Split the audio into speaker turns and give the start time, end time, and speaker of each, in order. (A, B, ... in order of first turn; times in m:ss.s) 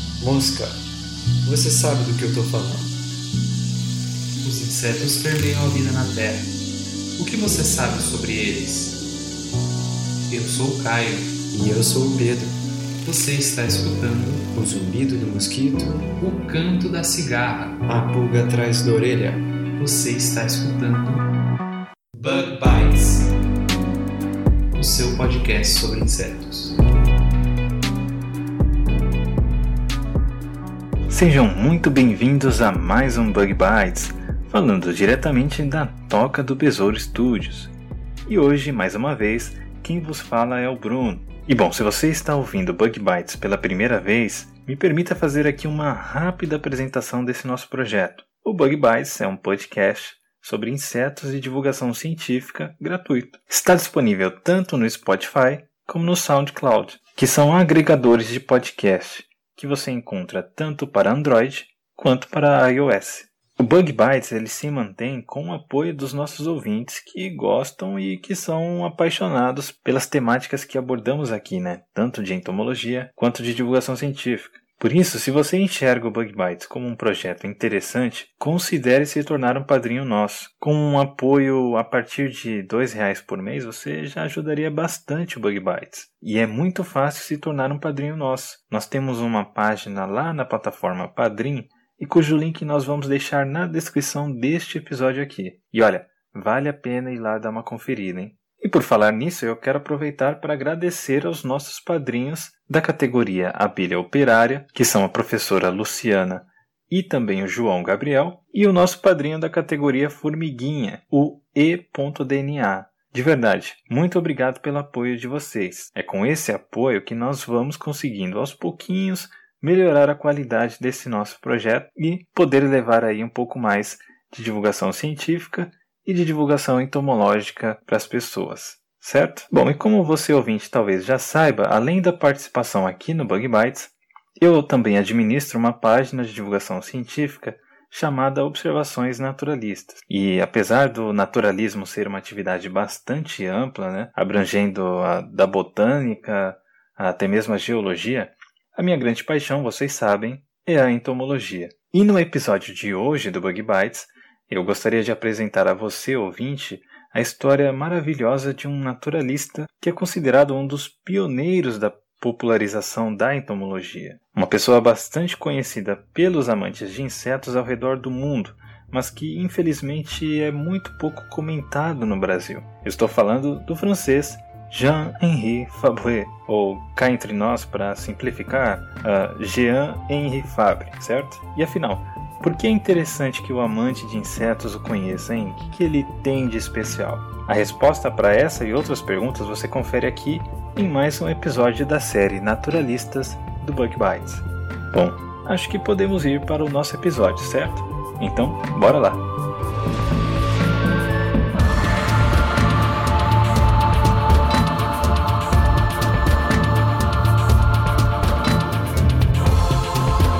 0:00.2-0:00.8 A
0:01.4-0:02.9 A
0:04.4-0:06.5 B
0:07.2-0:09.0 B
0:10.3-0:11.3 B
0:11.5-0:12.6 A
0:13.0-0:14.5 B
0:14.5-0:16.1 A
0:16.2-0:17.8 B
0:17.8-0:19.4 A
0:19.8-0:21.2 B
0:22.1-0:23.3 A
0:24.7-0:26.7 B
0:31.1-0:37.7 B
0:38.3-3:19.2 B